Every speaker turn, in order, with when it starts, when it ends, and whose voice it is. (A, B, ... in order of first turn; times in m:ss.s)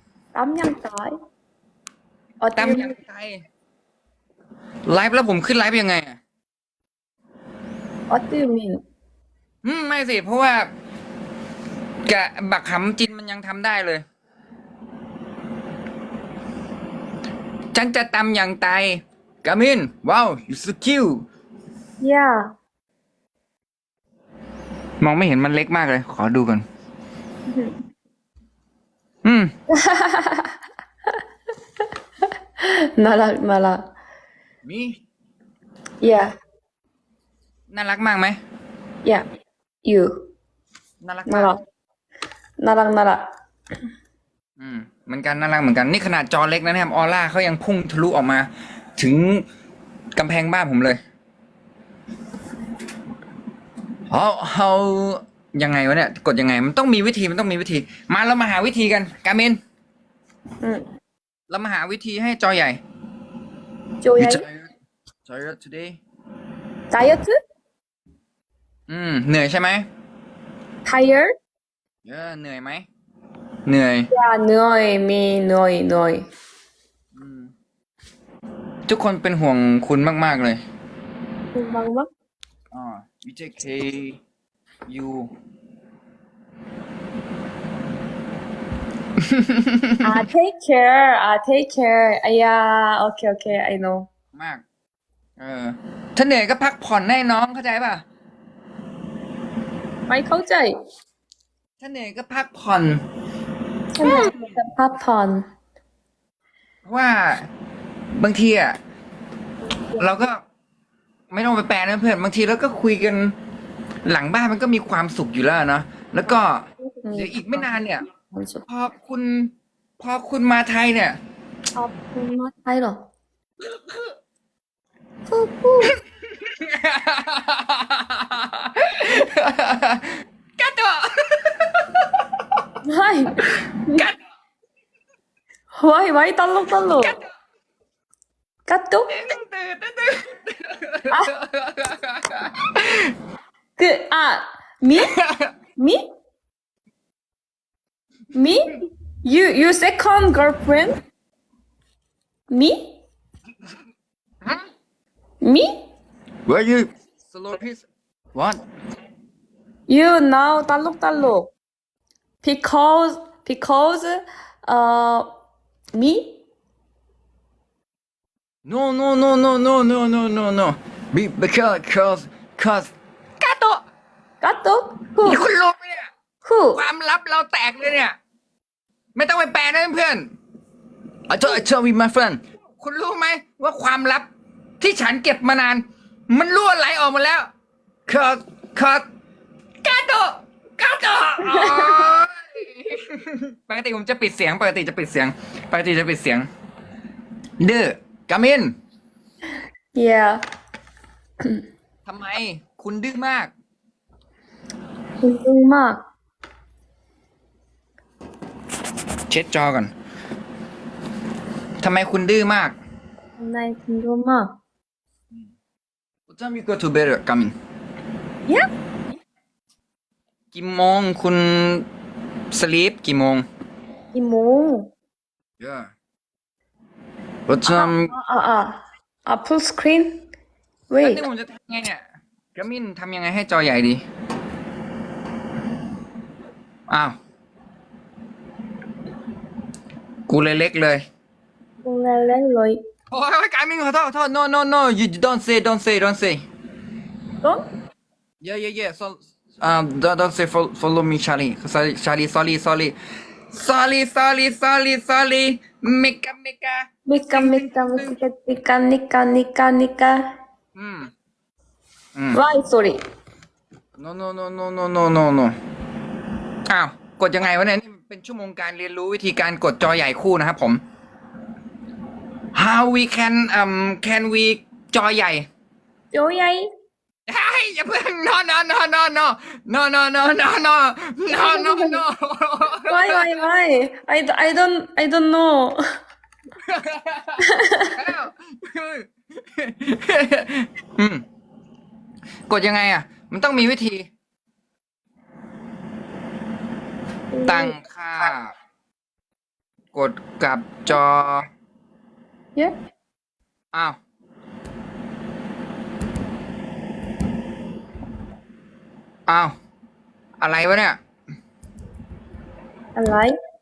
0:00.3-0:01.1 A
0:02.4-0:03.0 A
0:02.6-0:03.4 B
0:04.9-0:06.2 B
0:08.1-0:08.8 A
0:09.6-0:10.7 B
0:12.1-0:14.0 B
0:17.7-0:21.2 B
0:22.0-0:22.4 A
0:25.0-0:26.6 B
0:29.2-0:29.5 B
0:29.7-0:30.6 A
0:32.6-0:33.8 A
0:34.6-0:35.0 B
0:36.0-0:36.3 A
0:37.7-0:38.4 B
0:39.8-0:40.1 A
0:41.0-0:41.6 B
0:41.3-0:41.6 A
0:42.6-0:43.2 A
0:44.6-0:49.4 B
0:50.2-0:51.0 B
0:54.1-0:59.6 B
1:01.5-1:02.8 B
1:04.0-1:04.4 A
1:04.2-1:04.7 B
1:05.3-1:06.0 B
1:06.9-1:07.4 A
1:08.9-1:09.9 B
1:10.8-1:11.3 A
1:12.0-1:12.9 B
1:13.7-1:14.1 B
1:14.1-1:16.3 A
1:17.1-1:17.5 B
1:18.9-1:20.6 B
1:21.5-1:22.1 A
1:22.7-1:24.2 B
1:24.9-1:25.3 B
1:29.2-1:30.1 B
1:30.0-1:34.1 A
1:34.3-1:34.6 B
1:35.4-1:38.0 B
1:40.1-1:40.8 A
1:41.8-1:43.0 B
1:44.0-1:45.4 A
1:44.0-1:44.6 B
1:46.8-1:47.5 B
1:48.1-1:48.8 B
1:50.0-1:50.4 B
1:51.3-1:53.3 B
1:54.1-1:58.1 B
1:57.0-1:58.6 A
1:58.7-2:01.2 B
2:01.8-2:03.1 A
2:05.3-2:06.0 A
2:06.4-2:11.8 B
2:12.8-2:14.1 A
2:13.5-2:14.2 B
2:15.8-2:17.2 A
2:17.0-2:17.3 B
2:18.7-2:19.1 A
2:19.1-2:23.1 B
2:23.8-2:25.1 A
2:25.0-2:25.5 B
2:25.8-2:26.0 A
2:28.3-2:31.0 A
2:32.5-2:33.0 A
2:35.4-2:35.7 A
2:36.5-2:37.8 B
2:38.4-2:38.6 B
2:39.9-2:41.5 A
2:42.4-2:45.3 A
2:46.0-2:46.4 A
2:48.7-2:53.8 B
2:54.4-2:55.4 A
2:55.2-2:56.1 B
2:56.4-2:56.8 A
2:56.7-2:58.2 B
2:59.2-3:00.3 B
3:01.3-3:04.3 B
3:04.8-3:07.5 B
3:08.1-3:09.1 B
3:09.8-3:16.5 B
3:11.4-3:12.1 A
3:17.6-3:18.8 B
3:20.0-3:20.4 A
3:22.1-3:23.5 B
3:25.2-3:26.0 A
3:29.3-3:29.9 B
3:31.8-3:32.8 B
3:33.4-3:34.5 A
3:36.3-3:37.6 B
3:40.5-3:41.9 B
3:42.5-3:43.4 B
3:44.1-3:44.9 A
3:45.6-3:45.9 B
3:47.5-3:48.1 B
3:47.7-3:50.3 A
3:50.9-3:51.2 A
3:51.0-3:52.0 B
3:52.6-3:54.0 B
3:56.9-3:57.2 B
4:00.3-4:01.0 B
4:01.8-4:02.8 A
4:03.1-4:06.4 B
4:08.4-4:13.0 B
4:13.5-4:18.2 B
4:17.1-4:20.2 A
4:20.8-4:21.1 B
4:22.3-4:23.0 A
4:24.0-4:25.6 B
4:26.7-4:30.8 B
4:32.5-4:35.5 B
4:36.1-4:36.6 A
4:37.3-4:43.4 B
4:41.3-4:42.0 A
4:42.9-4:45.8 A
4:46.6-4:51.2 B
4:47.4-4:48.0 A
4:52.5-4:54.1 B
4:57.3-4:57.8 A
4:57.5-4:58.5 B
4:59.9-5:01.5 B
5:03.7-5:04.0 B
5:09.3-5:09.6 B
5:10.4-5:11.0 B
5:13.0-5:13.4 A